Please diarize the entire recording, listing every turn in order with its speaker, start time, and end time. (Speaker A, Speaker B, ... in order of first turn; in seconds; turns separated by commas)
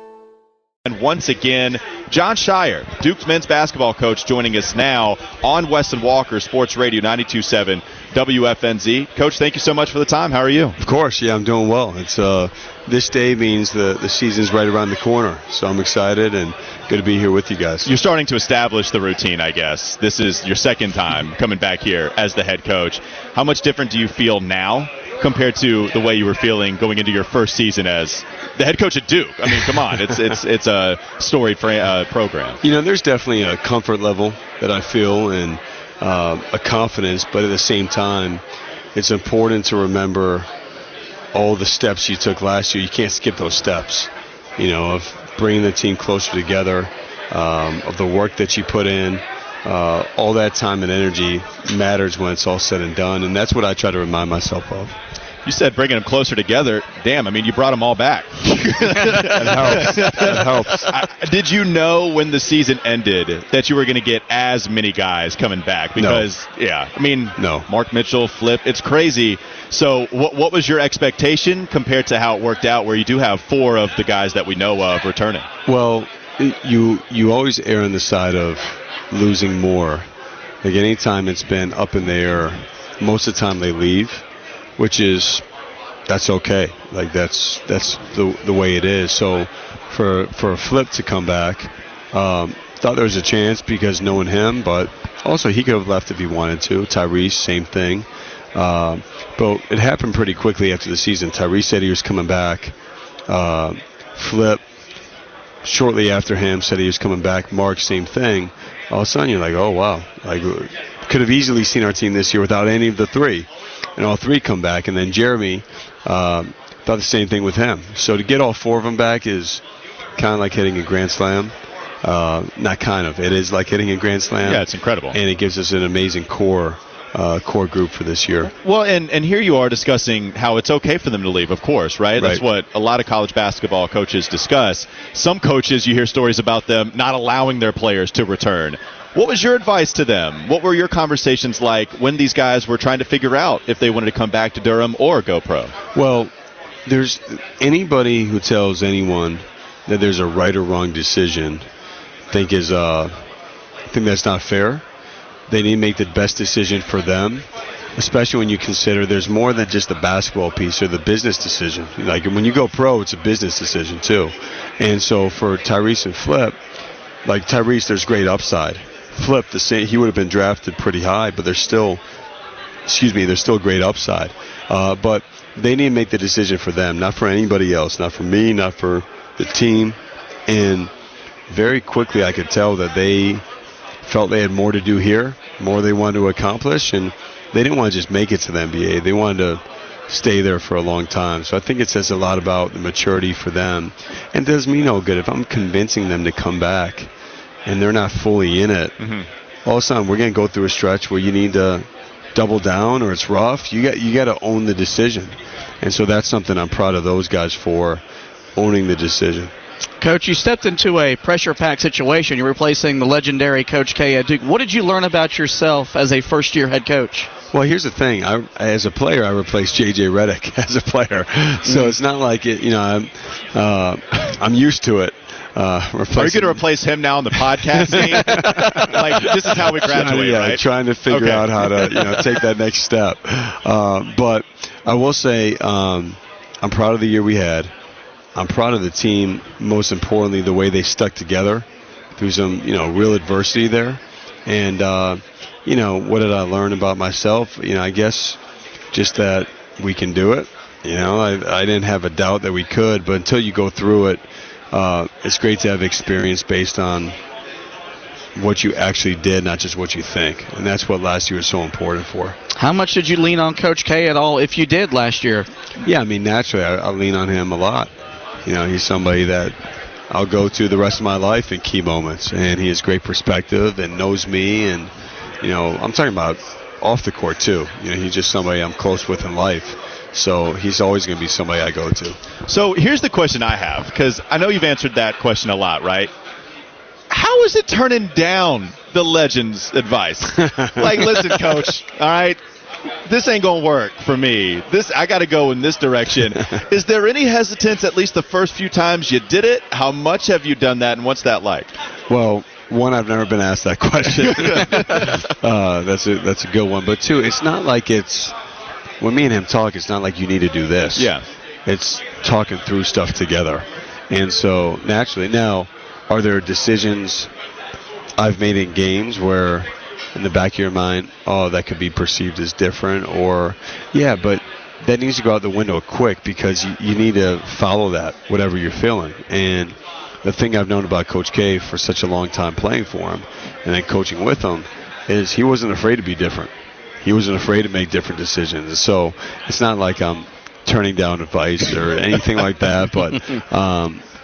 Speaker A: 0.8-10.8, Speaker B: 10.8-17.9, Speaker A: 17.8-32.6, Speaker B: 32.6-38.4, Speaker B: 38.9-40.5, Speaker B: 41.3-55.0, Speaker A: 55.4-75.5, Speaker B: 59.1-60.9, Speaker B: 66.0-66.3, Speaker B: 67.4-67.7, Speaker B: 75.7-80.0, Speaker B: 80.6-84.2, Speaker B: 84.8-85.5, Speaker B: 86.1-102.7, Speaker B: 103.3-104.6, Speaker B: 105.6-119.6, Speaker B: 120.2-128.5, Speaker A: 124.4-125.2, Speaker A: 128.6-145.7, Speaker B: 132.2-132.4, Speaker B: 145.9-146.3, Speaker B: 146.8-151.7, Speaker B: 152.3-153.1, Speaker B: 153.9-154.8, Speaker B: 155.5-166.5, Speaker B: 167.2-172.0, Speaker B: 172.8-180.9, Speaker B: 181.5-183.4, Speaker B: 184.0-197.1, Speaker B: 197.7-199.0, Speaker A: 199.0-199.3, Speaker B: 199.7-208.0, Speaker B: 208.6-209.5, Speaker C: 210.0-217.3, Speaker B: 217.5-226.6, Speaker C: 221.7-221.9, Speaker A: 226.1-232.2, Speaker B: 227.5-237.7, Speaker B: 238.3-248.4, Speaker B: 248.9-257.2, Speaker B: 258.3-262.4, Speaker C: 262.5-265.5, Speaker B: 265.8-267.9, Speaker B: 268.4-269.5, Speaker B: 270.1-282.2, Speaker A: 282.5-286.1, Speaker A: 287.1-292.4, Speaker A: 293.0-301.7, Speaker B: 302.1-308.4, Speaker B: 309.0-311.1, Speaker A: 310.9-311.2, Speaker B: 311.6-317.3, Speaker B: 318.2-336.5, Speaker B: 337.0-344.0